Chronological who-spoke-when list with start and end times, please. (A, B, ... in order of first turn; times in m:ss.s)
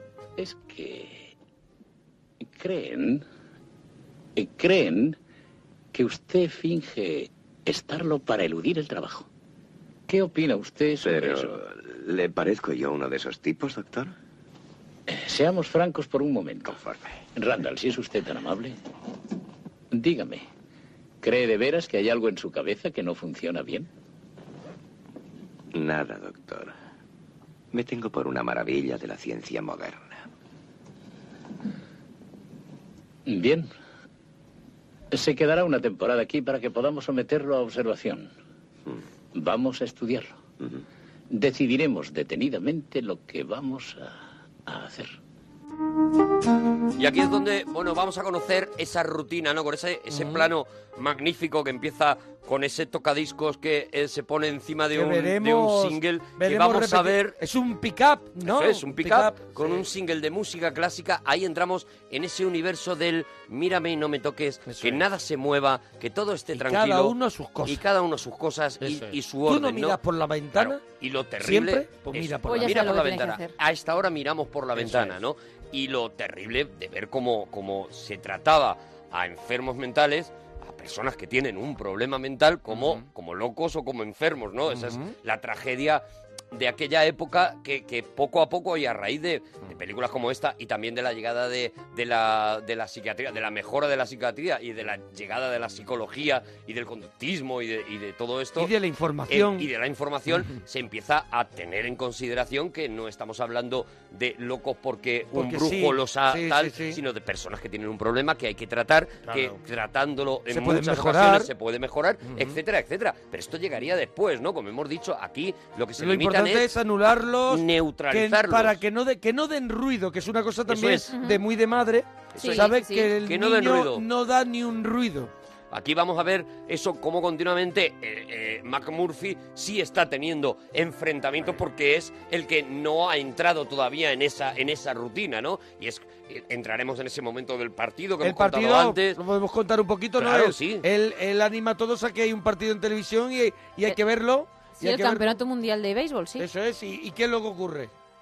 0:00.4-0:01.3 A
0:02.5-0:03.2 A
0:04.4-0:05.2 A
0:05.9-0:09.3 A
0:10.1-0:11.6 A
0:11.0-0:14.1 B
0:15.1-0:16.8 A
0:16.7-0:17.2 B
0:17.3-0:18.8 A
0:19.9-0:20.5 A
0:21.2-0:23.9 A
0:25.7-0:26.7 B
0:27.7-0:30.3 B
0:33.3-0:33.7 A
0:35.1-0:38.3 A
0:39.3-0:40.4 A
0:41.3-0:44.2 A
0:44.7-0:45.2 A
0:47.0-0:57.4 C
0:50.1-0:50.5 D
0:54.9-0:59.8 D
0:58.4-1:10.0 C
1:04.7-1:05.0 D
1:06.5-1:07.8 D
1:08.8-1:10.8 D
1:10.5-1:38.7 C
1:11.4-1:13.0 D
1:12.4-1:13.5 E
1:14.8-1:15.2 D
1:22.7-1:23.0 D
1:24.7-1:25.0 D
1:38.6-1:39.7 D
1:39.3-1:56.7 C
1:45.3-1:47.0 D
1:49.3-1:49.5 D
1:50.5-1:51.5 D
1:52.3-1:52.6 D
1:56.0-2:05.3 D
1:57.5-1:58.8 C
2:00.7-2:01.1 C
2:01.1-2:01.4 E
2:02.3-2:04.0 C
2:02.4-2:03.1 E
2:05.7-2:19.2 C
2:18.2-2:25.3 D
2:20.2-2:20.8 C
2:24.8-2:26.5 E
2:26.4-2:27.9 D